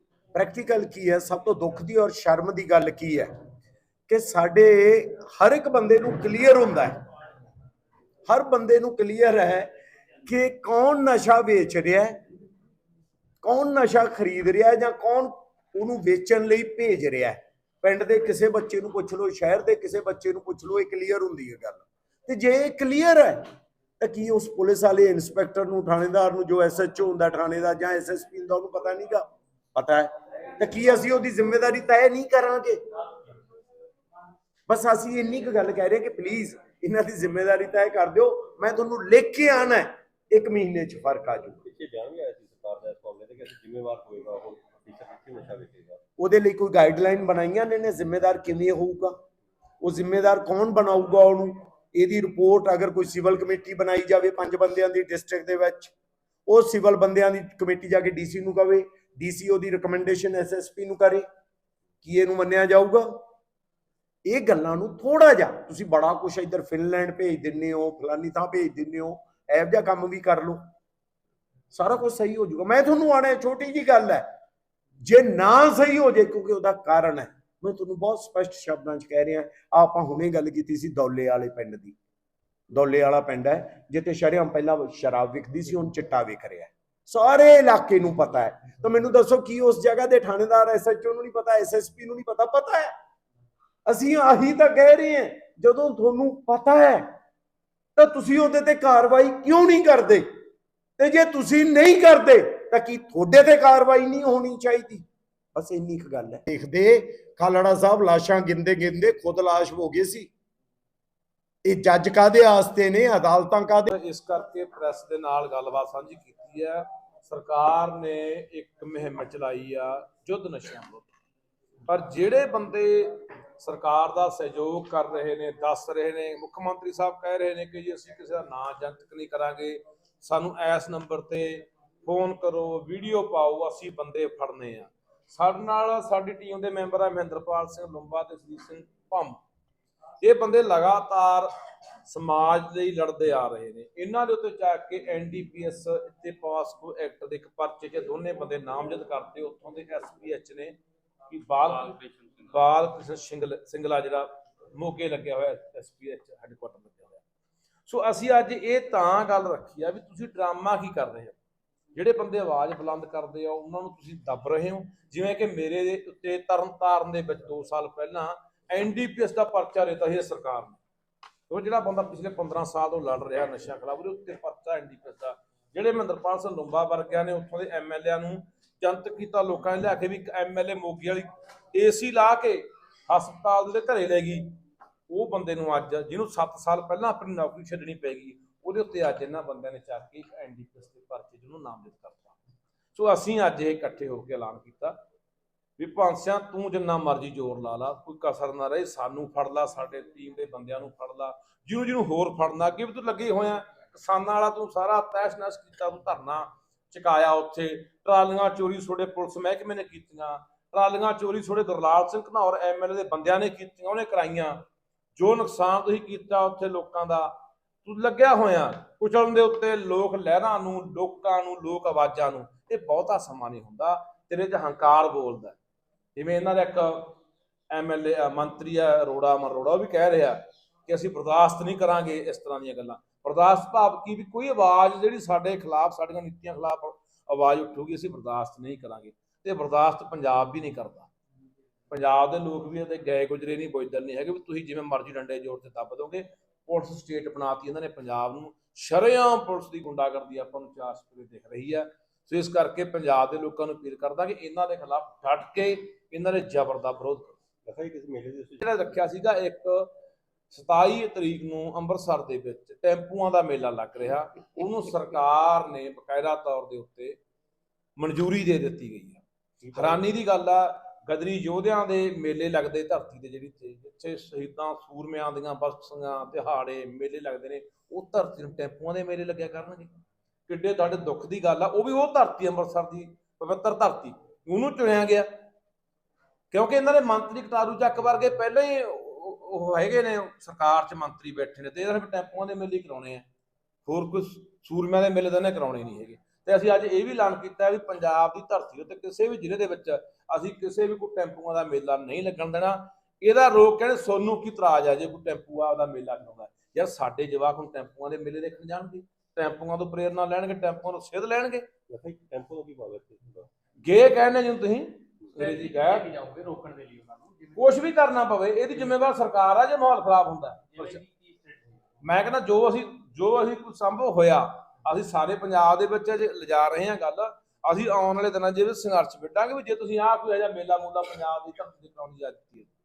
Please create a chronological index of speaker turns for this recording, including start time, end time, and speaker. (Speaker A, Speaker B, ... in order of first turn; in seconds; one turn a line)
Speaker A: 0.3-3.3
Speaker A: 4.1-7.0
Speaker A: 8.3-9.7
Speaker A: 10.2-12.2
Speaker A: 13.4-23.4
Speaker A: 24.0-32.8
Speaker A: 34.7-41.6
Speaker B: 41.6-46.0
Speaker A: 46.2-49.1
Speaker A: 49.8-55.9
Speaker A: 56.5-61.2
Speaker A: 62.0-63.1
Speaker A: 64.3-70.6
Speaker A: 71.7-74.2
Speaker A: 75.0-82.0
Speaker A: 82.7-92.9
Speaker A: 93.9-97.1
Speaker A: 98.0-100.3
Speaker A: 101.0-105.0
Speaker A: 105.5-110.3
Speaker A: 111.6-113.9
Speaker C: 113.9-121.1
Speaker C: 121.9-139.4
Speaker C: 140.2-141.5
Speaker C: 142.1-150.7
Speaker C: 151.3-152.0
Speaker C: 152.5-157.2
Speaker C: 157.9-161.3
Speaker C: 161.9-170.8
Speaker C: 171.5-184.6
Speaker C: 185.1-192.3
Speaker C: 192.9-194.9
Speaker C: 195.8-214.6
Speaker C: 215.1-217.3
Speaker C: 217.8-225.6
Speaker C: 226.1-227.2
Speaker C: 227.7-241.1
Speaker C: 241.9-257.4
Speaker B: 257.7-258.6
Speaker C: 258.6-259.9
Speaker C: 260.5-267.2
Speaker C: 268.0-269.2
Speaker B: 269.6-270.0
Speaker C: 269.7-279.9
Speaker C: 280.5-285.3
Speaker C: 286.5-293.2
Speaker C: 293.9-311.7
Speaker B: 311.9-313.5
Speaker C: 313.8-316.1
Speaker D: 315.4-317.8
Speaker C: 317.6-321.0
Speaker D: 320.7-321.8
Speaker C: 322.0-332.7